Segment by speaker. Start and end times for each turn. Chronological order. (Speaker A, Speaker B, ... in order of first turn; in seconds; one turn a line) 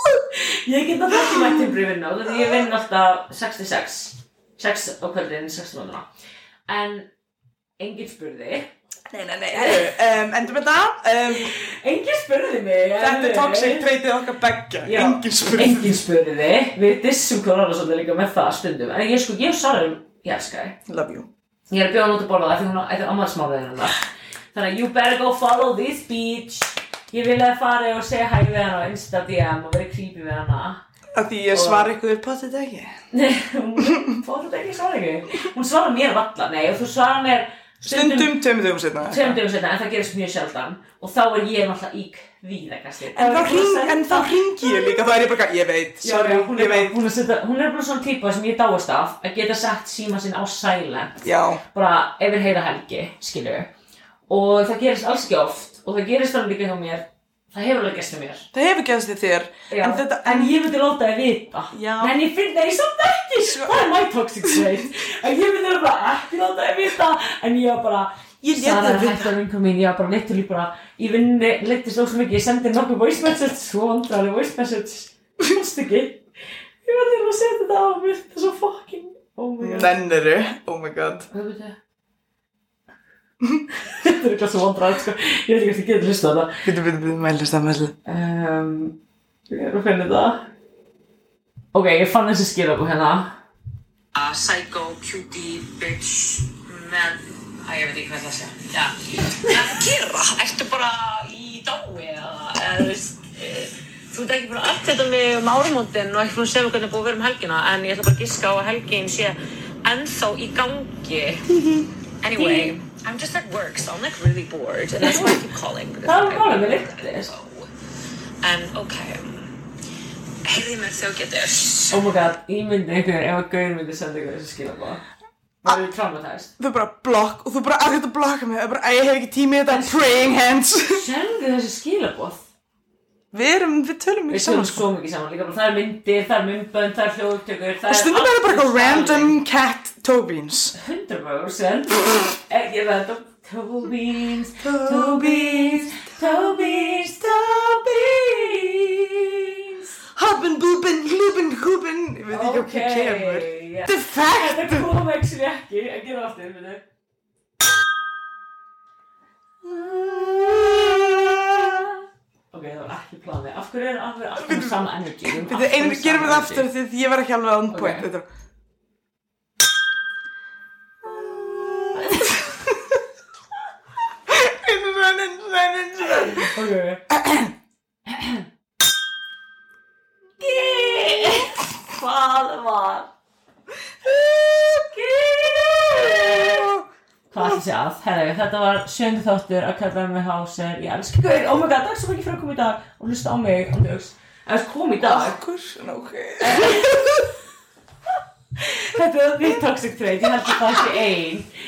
Speaker A: 0.3-6.0
Speaker B: 1.1-1.6
Speaker B: 2.3-2.7
Speaker A: 6.7-7.1
Speaker A: 7.8-8.7
Speaker B: 9.1-11.5
Speaker A: 9.5-9.9
Speaker A: 11.3-13.9
Speaker B: 13.0-16.0
Speaker A: 14.8-20.8
Speaker B: 20.9-21.3
Speaker A: 21.7-30.8
Speaker B: 31.1-33.0
Speaker A: 31.5-31.9
Speaker A: 33.1-38.4
Speaker B: 37.8-39.4
Speaker A: 39.0-45.0
Speaker B: 43.1-47.0
Speaker A: 46.0-53.7
Speaker B: 51.2-51.6
Speaker A: 54.3-58.5
Speaker B: 58.5-60.6
Speaker A: 59.7-76.2
Speaker B: 61.7-62.2
Speaker B: 63.5-63.9
Speaker B: 68.4-69.3
Speaker A: 76.8-79.9
Speaker B: 79.6-81.3
Speaker A: 81.3-81.8
Speaker A: 83.8-86.7
Speaker B: 86.6-88.0
Speaker A: 88.0-89.0
Speaker A: 89.5-90.5
Speaker A: 91.7-93.3
Speaker C: 94.1-98.9
Speaker C: 99.4-103.1
Speaker A: 103.4-103.7
Speaker C: 104.1-104.4
Speaker A: 104.3-105.9
Speaker C: 105.9-111.4
Speaker B: 111.5-111.8
Speaker C: 112.2-117.7
Speaker A: 112.3-112.8
Speaker A: 115.0-115.4
Speaker A: 116.0-117.3
Speaker C: 118.4-119.3
Speaker C: 120.4-121.9
Speaker A: 121.9-125.0
Speaker A: 125.6-126.5
Speaker B: 126.6-131.0
Speaker A: 129.7-132.4
Speaker B: 133.3-134.8
Speaker A: 134.3-139.4
Speaker B: 137.8-140.7
Speaker A: 140.7-149.9
Speaker B: 144.6-148.7
Speaker B: 150.1-154.9
Speaker A: 152.3-156.8
Speaker B: 159.6-161.9
Speaker A: 162.5-166.7
Speaker B: 164.4-168.2
Speaker A: 167.7-168.1
Speaker B: 171.0-173.0
Speaker B: 174.2-176.5
Speaker A: 176.2-177.0
Speaker B: 177.1-177.5
Speaker A: 178.1-178.4
Speaker A: 180.4-183.1
Speaker B: 180.9-181.4
Speaker B: 184.0-186.8
Speaker A: 184.9-186.6
Speaker A: 187.3-195.4
Speaker B: 195.0-197.3
Speaker A: 196.4-197.2
Speaker A: 198.6-201.5